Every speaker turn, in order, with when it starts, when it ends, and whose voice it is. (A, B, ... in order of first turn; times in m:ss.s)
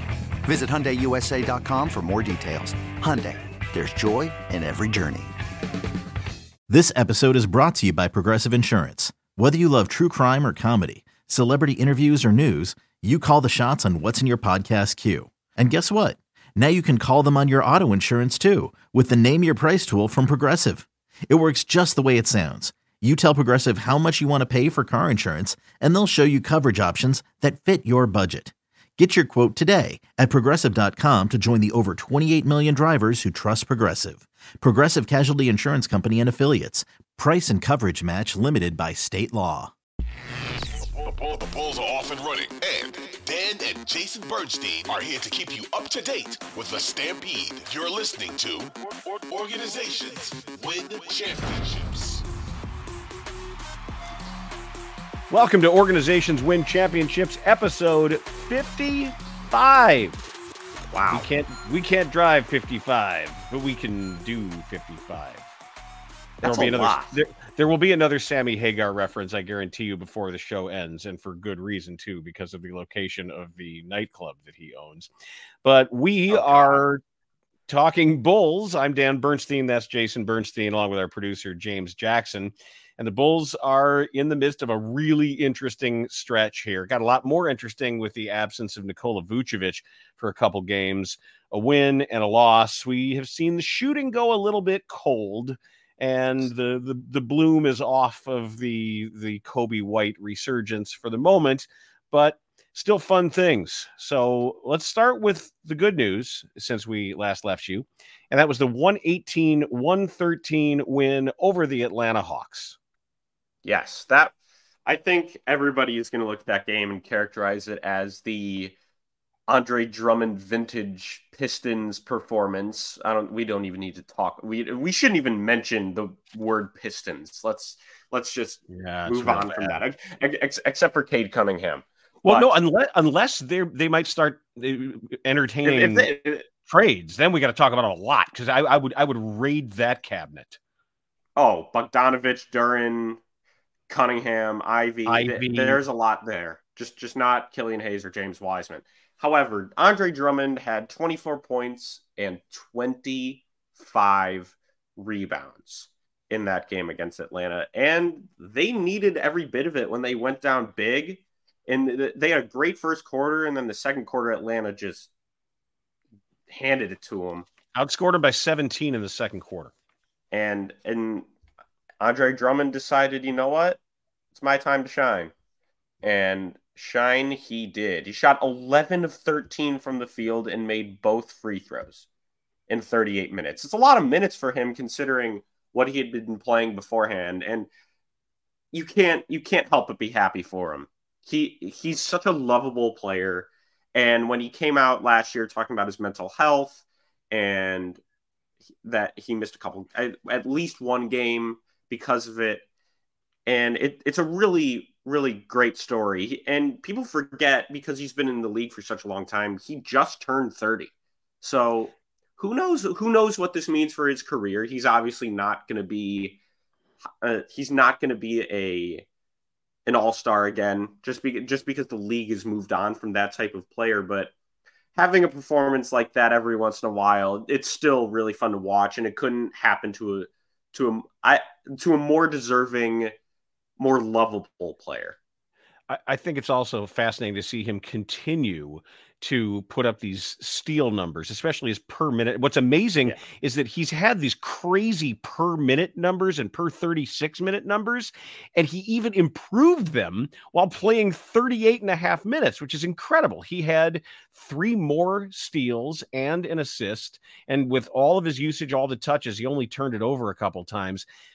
0:00.4-0:05.3 A
0:06.7-0:39.7 B
0:40.7-0:52.2 C
0:55.3-1:00.3 D
1:00.9-1:01.3 E
1:01.1-1:05.5 D
1:06.4-1:07.2 E
1:06.4-1:15.1 D
1:15.6-1:17.0 D
1:16.3-1:16.9 E
1:17.7-1:52.8 D
1:53.6-1:54.3 E
1:54.8-1:58.7 E
1:59.5-2:12.5 E
2:08.7-2:09.8 D
2:12.2-2:16.1 D
2:15.6-2:16.4 E
2:16.6-2:20.6 D
2:21.4-2:23.2 E
2:23.9-2:45.1 E
2:25.0-2:25.8 D
2:46.5-2:47.5 E
2:47.7-2:49.7 D
2:50.3-2:51.3 E
2:52.0-2:53.8 E
2:54.3-2:55.3 E
2:56.0-3:02.0 E
3:02.7-3:07.7 E
3:08.7-3:18.0 E
3:18.8-3:22.6 E
3:23.5-3:30.9 E
3:31.4-3:36.4 E
3:37.2-3:39.0 E
3:39.8-3:44.3 E
3:45.0-3:53.1 E
3:53.8-3:55.2 E
3:55.9-4:21.0 D